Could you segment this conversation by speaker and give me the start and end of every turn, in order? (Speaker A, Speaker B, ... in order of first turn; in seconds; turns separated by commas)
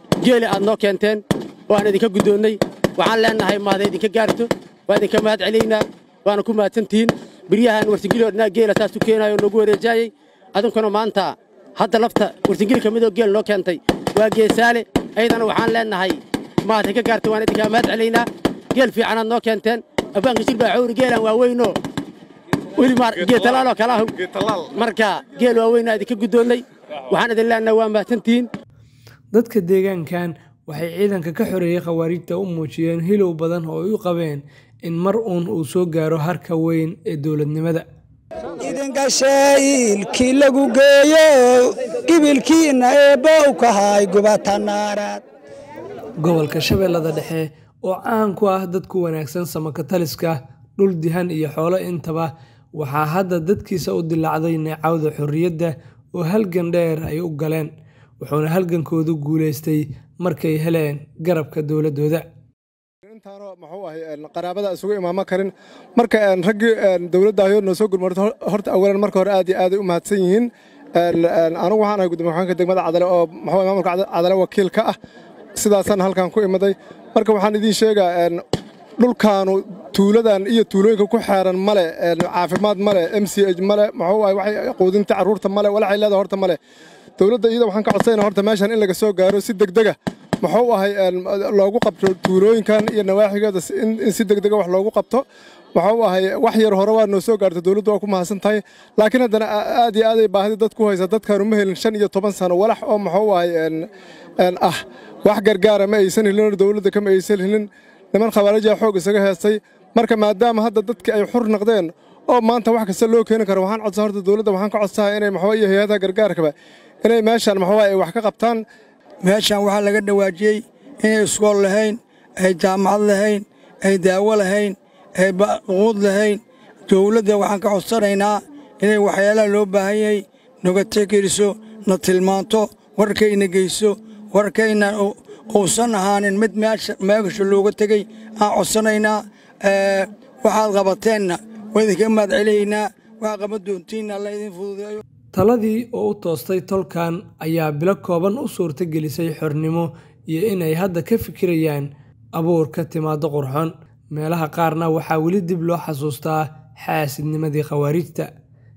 Speaker A: 0.2-21.7, Speaker A: 22.8-28.5, Speaker B: 29.3-37.8, Speaker C: 38.6-45.2, Speaker B: 46.2-62.2, Speaker D: 63.0-74.9, Speaker D: 75.6-78.4, Speaker D: 79.0-86.6, Speaker D: 87.2-95.2, Speaker D: 95.8-103.8, Speaker D: 104.4-116.5, Speaker D: 117.0-118.6, Speaker E: 119.2-145.0, Speaker B: 145.3-158.3